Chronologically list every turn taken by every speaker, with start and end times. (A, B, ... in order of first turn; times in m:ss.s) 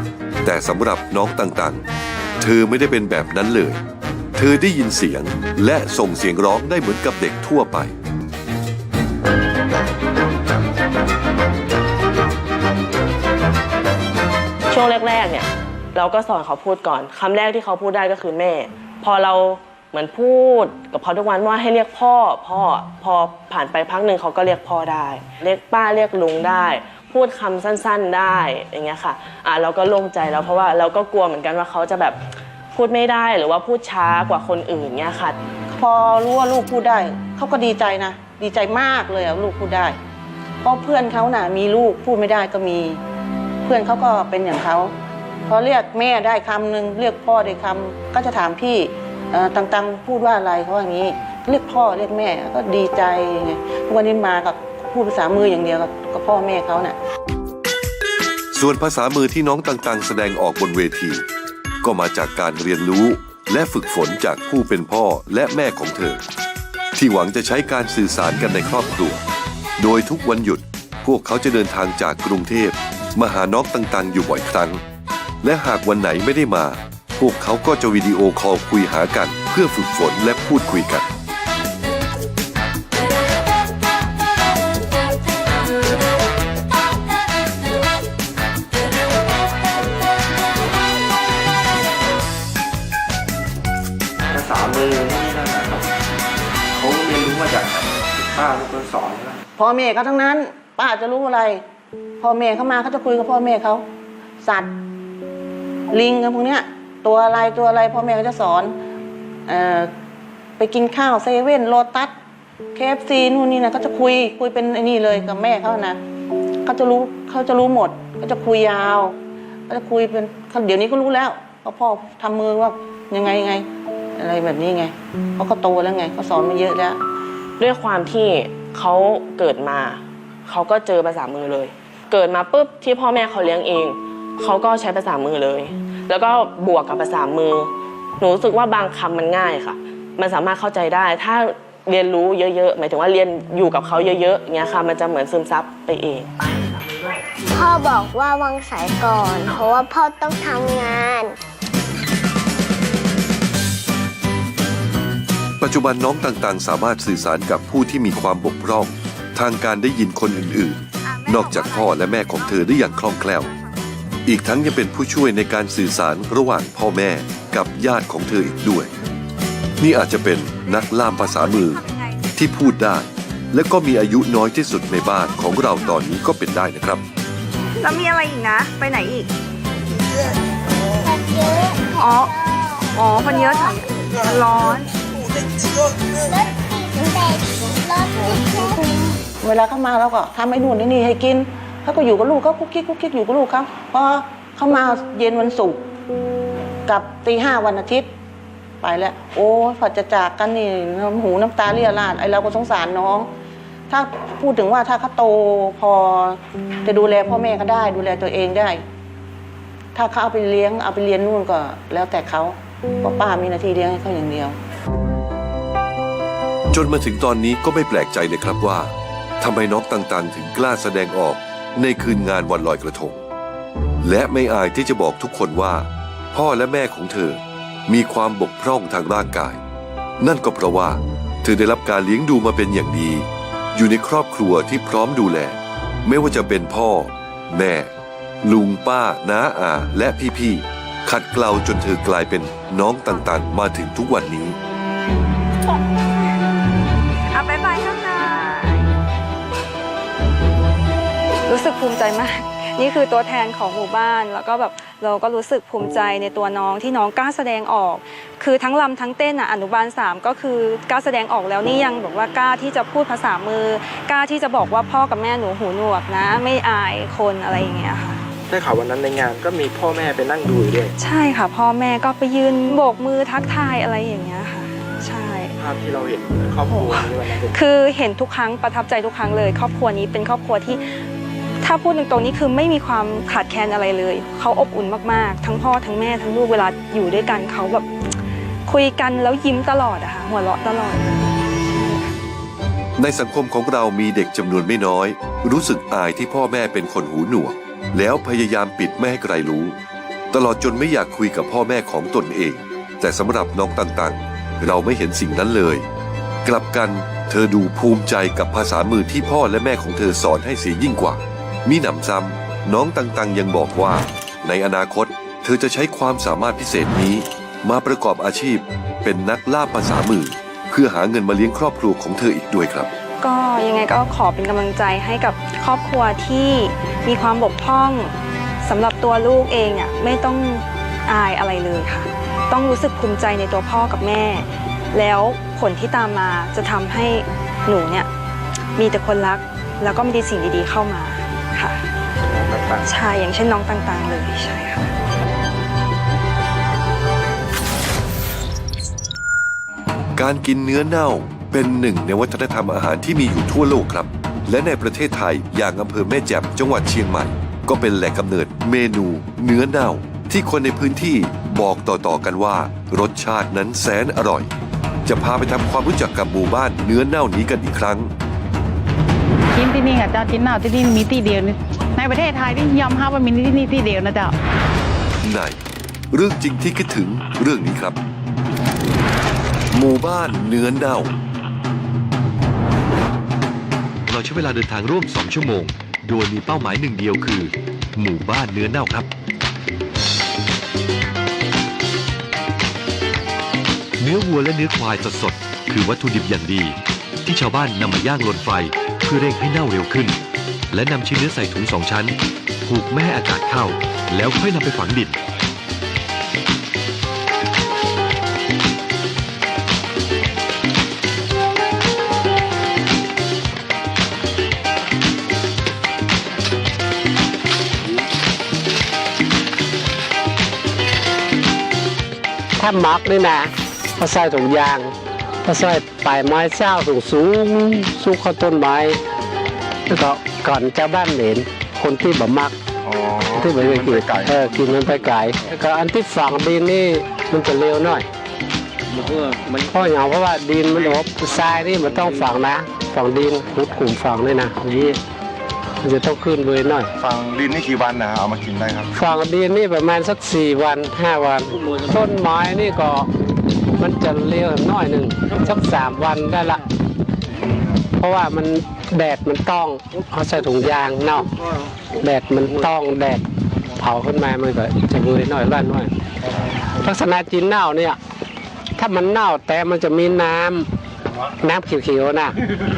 0:00.4-0:01.8 A
0:02.4-0:03.8 A
0:04.4-0:07.9 A
0:14.7-0:32.2 B
0:32.7-0:35.4 B
0:35.7-0:40.0 C
0:40.6-0:43.0 C
0:43.6-0:44.9 C
0:45.5-0:56.9 C
0:58.5-1:01.2 A
1:01.8-1:06.2 A
1:07.0-1:09.2 A
1:09.8-1:14.8 A
1:15.4-1:21.1 A
1:34.3-1:35.9 D
1:36.7-1:39.4 D
1:39.6-1:41.6 C
1:42.2-1:43.8 C
1:44.4-1:44.7 C
1:45.9-1:48.7 C
1:49.5-1:49.9 C
1:50.6-1:52.1 C
1:52.7-1:56.0 C
1:56.6-1:59.2 C
1:59.7-2:07.0 C
2:07.6-2:26.3 B
2:27.5-2:31.4 E
2:35.6-2:43.5 A
2:41.0-2:43.9 F
2:44.2-2:48.9 A
2:49.8-2:51.8 A
2:50.8-2:52.3 F
2:52.4-2:57.0 A
2:57.8-2:59.3 F
3:01.0-3:01.8 E
3:01.9-3:02.4 F
3:02.9-3:04.9 F
3:06.2-3:08.8 E
3:09.4-3:15.8 C
3:16.9-3:18.1 C
3:18.8-3:23.3 C
3:23.9-3:28.8 C
3:29.9-3:34.6 C
3:36.7-3:43.2 A
3:44.0-3:49.6 A
3:50.2-3:57.9 A
3:58.4-4:04.6 A
4:07.3-4:08.9 F
4:11.5-4:28.2 F
4:28.5-4:30.9 D
4:31.0-4:35.5 F
4:35.6-4:37.6 D
4:36.7-4:40.8 F
4:41.6-4:47.9 F
4:48.7-4:51.0 F
4:53.0-4:59.8 A
5:00.3-5:05.8 A
5:06.4-5:22.9 A
5:23.2-5:38.1 F
5:38.8-5:41.8 F
5:42.2-5:42.8 D
5:42.8-5:44.9 F
5:50.2-6:04.5 A
6:05.0-6:08.1 A
6:09.5-6:14.3 G
6:15.2-6:15.6 A
6:16.1-6:18.0 A
6:19.7-6:21.1 A
6:24.1-6:29.1 A
6:34.0-6:45.2 A
7:02.6-7:04.9 H
7:05.4-7:09.0 H
7:09.9-7:12.5 H
7:12.8-7:15.0 I
7:13.3-7:18.0 H
7:19.5-7:25.0 H
7:25.8-7:26.9 H
7:27.0-7:28.9 I
7:28.9-7:33.1 H
7:33.8-7:36.6 H
7:38.0-7:41.3 H
7:42.0-7:43.2 H
7:43.8-7:45.9 H
7:46.8-7:48.0 H
7:48.8-7:50.7 H
7:51.4-7:52.4 H